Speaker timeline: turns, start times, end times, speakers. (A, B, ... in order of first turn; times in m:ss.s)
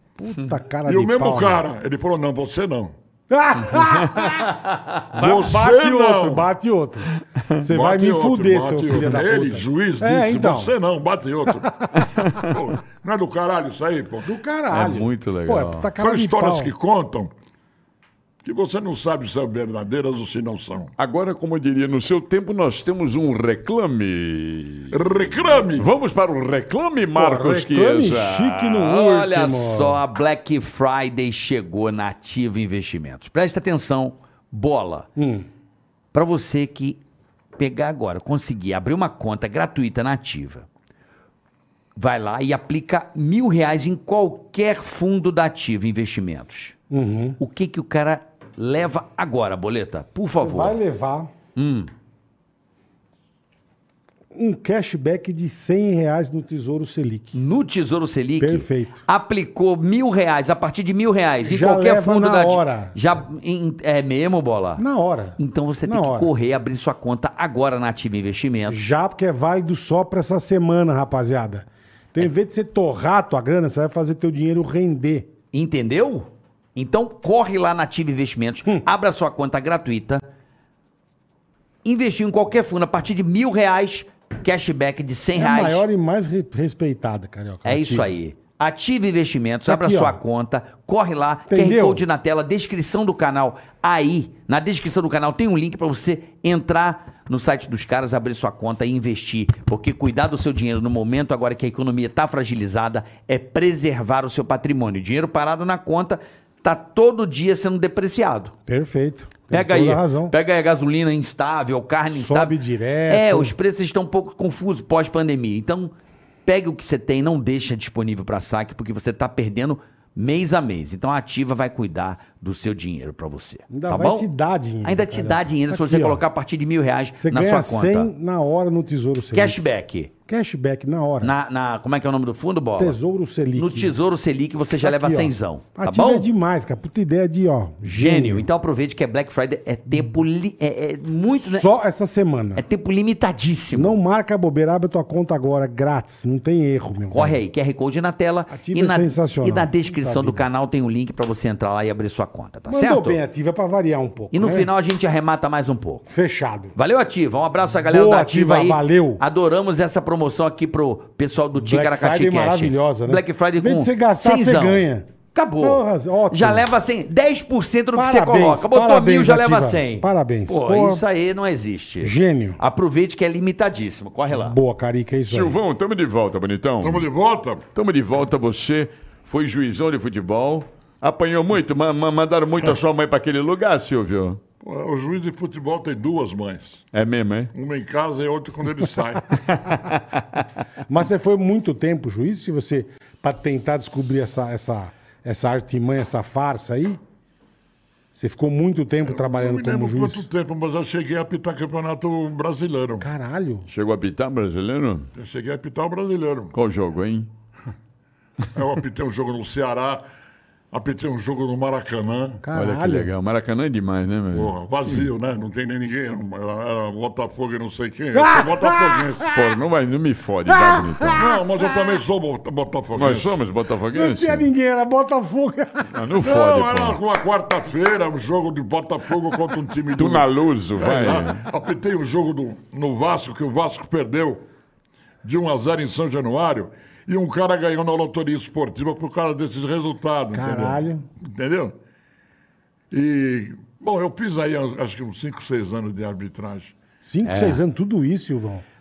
0:00.2-0:01.6 A
0:00.9-0:02.9 B
0:03.3-0:10.8 A
0:05.1-0:06.5 B
0:07.6-0:14.3 B
0:11.5-0:12.2 A
0:14.2-0:16.7 A
0:14.7-0:15.9 C
0:16.0-0:17.3 B
0:18.4-0:20.9 B
0:21.0-0:25.0 D
0:24.9-0:25.9 B
0:25.6-0:28.8 D
0:27.1-0:30.0 A
0:28.8-0:35.1 C
0:35.2-0:35.5 A
0:36.1-0:37.0 C
0:37.6-0:40.7 C
0:42.0-0:46.8 C
0:46.9-0:47.4 A
0:47.4-0:50.8 C
0:50.4-0:51.3 A
0:51.6-0:51.9 C
0:54.3-0:57.4 A
0:57.3-1:04.8 C
0:58.4-0:59.0 A
1:01.4-1:03.0 A
1:04.8-1:06.3 A
1:05.4-1:08.8 C
1:08.7-1:15.3 A
1:15.5-1:20.2 C
1:21.8-1:25.8 C
1:25.3-1:28.1 A
1:27.6-1:48.5 C
1:29.7-1:30.2 A
1:31.5-1:32.0 A
1:48.7-1:50.3 A
1:49.5-1:52.6 C
1:52.1-1:53.5 A
1:53.1-1:55.9 C
1:56.4-2:04.3 C
2:03.7-2:06.2 A
2:04.8-2:08.1 C
2:07.2-2:09.6 A
2:09.3-2:10.1 C
2:10.3-2:11.3 A
2:11.2-2:13.0 C
2:12.8-2:14.0 A
2:13.6-2:16.3 C
2:14.8-2:18.5 A
2:17.8-2:21.7 C
2:19.9-2:20.2 A
2:21.4-2:22.7 A
2:22.6-2:24.0 C
2:23.7-2:27.4 A
2:27.1-2:33.2 C
2:28.5-2:30.5 A
2:32.7-2:34.7 A
2:34.3-2:36.1 C
2:36.1-2:36.8 A
2:36.8-2:54.6 C
2:37.7-2:39.2 A
2:41.6-2:45.1 A
2:45.6-2:46.7 A
2:47.9-2:51.0 A
2:52.0-2:52.6 A
2:54.3-2:55.6 A
2:55.3-2:57.1 D
2:56.8-2:57.6 B
2:57.8-3:04.4 D
3:04.6-3:06.8 B
3:06.9-3:07.5 D
3:07.5-3:09.4 B
3:09.5-3:10.0 D
3:10.9-3:17.0 A
3:18.1-3:20.3 A
3:19.1-3:23.1 B
3:23.0-3:23.7 A
3:23.7-3:25.1 D
3:25.2-3:26.6 B
3:26.5-3:27.3 D
3:28.5-3:30.0 B
3:30.7-3:32.4 B
3:32.4-3:33.1 A
3:32.5-3:34.5 D
3:34.3-3:39.3 B
3:38.1-3:39.6 A
3:39.3-3:41.2 D
3:40.5-3:42.0 A
3:41.2-3:43.4 B
3:43.0-3:44.5 D
3:43.9-3:46.1 A
3:45.9-3:47.0 D
3:46.2-3:54.5 B
3:50.0-3:51.4 D
3:55.2-4:01.8 B
4:00.3-4:01.1 A
4:02.9-4:06.8 B
4:07.0-4:08.6 A
4:07.2-4:07.6 C